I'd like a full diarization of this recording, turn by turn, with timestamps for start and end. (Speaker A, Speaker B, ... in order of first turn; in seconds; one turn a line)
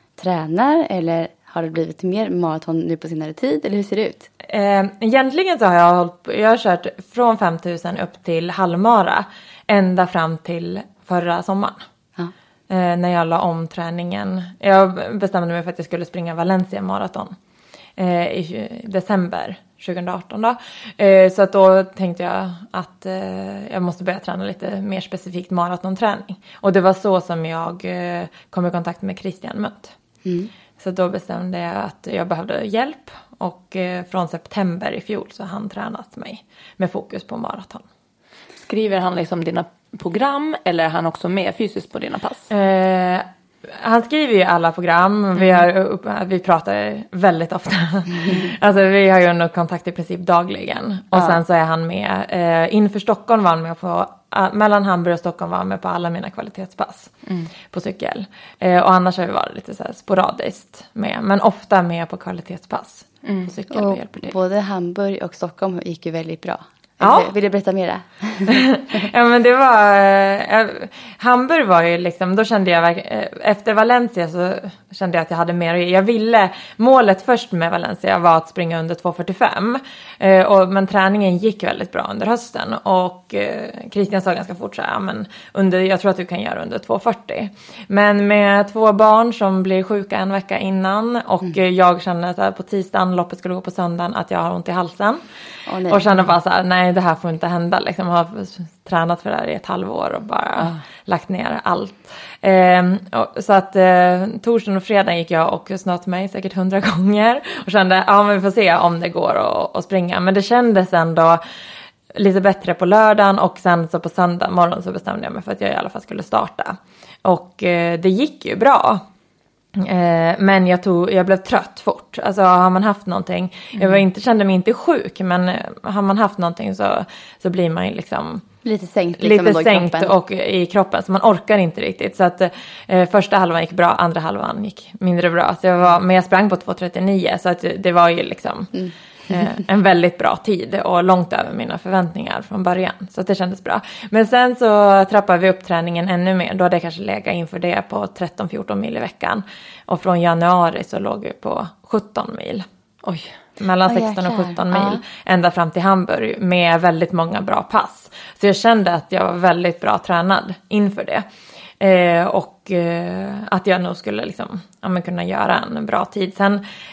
Speaker A: 0.2-4.3
Speaker B: 4.4-11.8
Speaker B: 12.7-17.3
Speaker B: 18.0-29.9
Speaker A: 30.2-30.5
Speaker B: 30.8-37.8
Speaker C: 38.6-42.5
Speaker B: 42.5-57.1
Speaker B: 57.7-64.3
Speaker C: 63.2-63.5
Speaker A: 63.7-68.6
Speaker B: 67.0-67.3
Speaker B: 68.5-95.2
Speaker A: 95.7-96.1
Speaker B: 95.9-111.4
Speaker B: 112.1-119.0
Speaker B: 119.8-128.4
Speaker C: 123.7-124.0
Speaker A: 128.6-130.1
Speaker B: 129.2-138.7
Speaker A: 138.8-139.5
Speaker B: 139.3-152.7
Speaker C: 153.0-153.3
Speaker B: 153.6-161.2
Speaker A: 153.8-155.0
Speaker B: 161.8-166.6